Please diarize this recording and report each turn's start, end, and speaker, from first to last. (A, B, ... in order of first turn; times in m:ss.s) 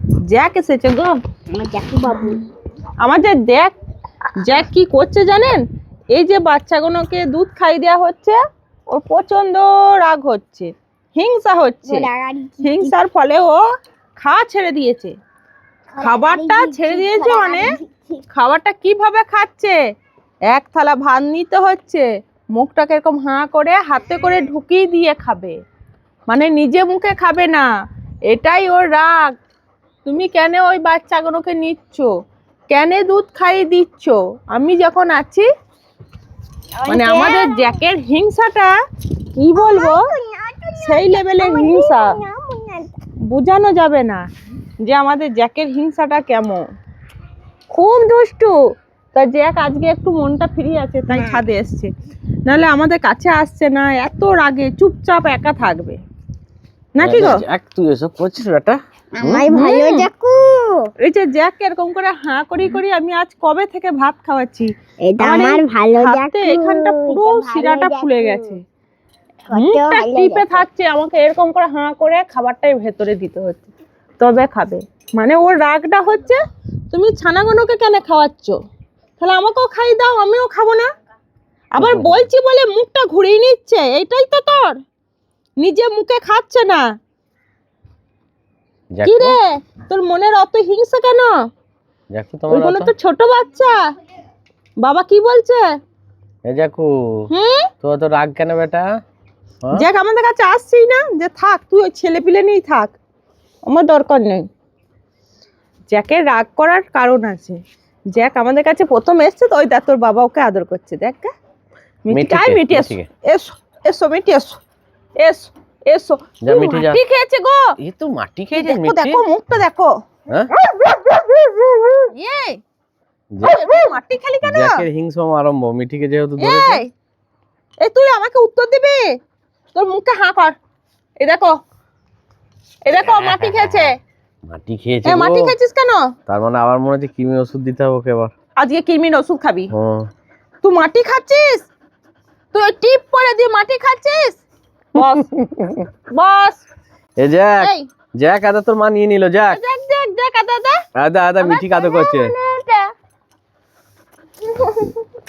0:00.3-0:01.2 A
0:01.5-0:02.4 B
0:03.0-0:03.7 A
0:04.4-0:05.6 A
0:06.1-0:08.4 A
0:08.9-0:12.0 A
0:11.8-0:12.9 B
0:12.6-0:13.6 A
0:14.2-0:15.1 A
0:15.9-0:18.2 B
0:16.0-0:17.6 A
0:18.3-0:19.8 A
0:20.5-0:25.5 A
0:26.3-0:27.7 A
0:28.3-0:29.4 A
0:30.0-0:32.1 A
0:32.7-0:35.5 A
0:36.8-0:37.8 B
0:36.9-0:38.7 A
0:39.3-0:40.0 A
0:39.5-0:42.9 B
0:40.8-0:42.1 A
0:43.3-0:44.2 A
0:44.8-0:46.6 A
0:47.7-0:48.5 A
0:49.1-0:51.9 A
0:51.1-0:51.4 B
0:52.4-0:56.0 A
0:56.9-0:57.4 A
0:57.0-0:59.5 C
0:59.1-1:00.8 B
0:59.5-1:00.1 A
1:01.0-1:08.6 A
1:05.0-1:08.5 B
1:09.5-1:10.6 B
1:09.5-1:16.4 A
1:16.9-1:18.6 A
1:19.2-1:20.9 A
1:21.7-1:24.7 A
1:21.8-1:22.3 C
1:25.6-1:26.8 A
1:28.9-1:29.4 C
1:29.0-1:31.3 A
1:32.1-1:32.9 C
1:32.5-1:33.8 A
1:34.8-1:35.6 A
1:36.4-1:37.2 C
1:37.3-1:37.7 A
1:37.8-1:38.9 C
1:39.7-1:43.0 A
1:43.7-1:44.4 A
1:45.9-1:47.6 A
1:48.1-1:51.3 A
1:52.0-1:54.6 A
1:52.1-1:53.1 C
1:55.2-1:57.6 A
1:56.4-1:57.0 C
1:57.8-1:59.2 C
1:58.6-1:59.9 A
2:02.0-2:02.6 A
2:03.3-2:03.6 C
2:03.4-2:04.8 A
2:04.4-2:06.8 C
2:06.4-2:06.9 A
2:07.8-2:09.0 A
2:09.7-2:10.6 A
2:11.2-2:11.6 A
2:12.8-2:14.0 A
2:13.0-2:13.9 C
2:14.5-2:15.5 C
2:15.0-2:16.1 A
2:16.3-2:18.3 C
2:18.6-2:19.7 A
2:19.7-2:20.1 C
2:20.6-2:21.7 A
2:22.5-2:24.4 A
2:24.9-2:25.3 A
2:25.0-2:25.9 C
2:26.1-2:26.6 A
2:27.2-2:29.6 C
2:27.6-2:27.8 A
2:29.5-2:30.8 A
2:30.9-2:32.3 C
2:31.4-2:32.9 A
2:34.5-2:35.0 A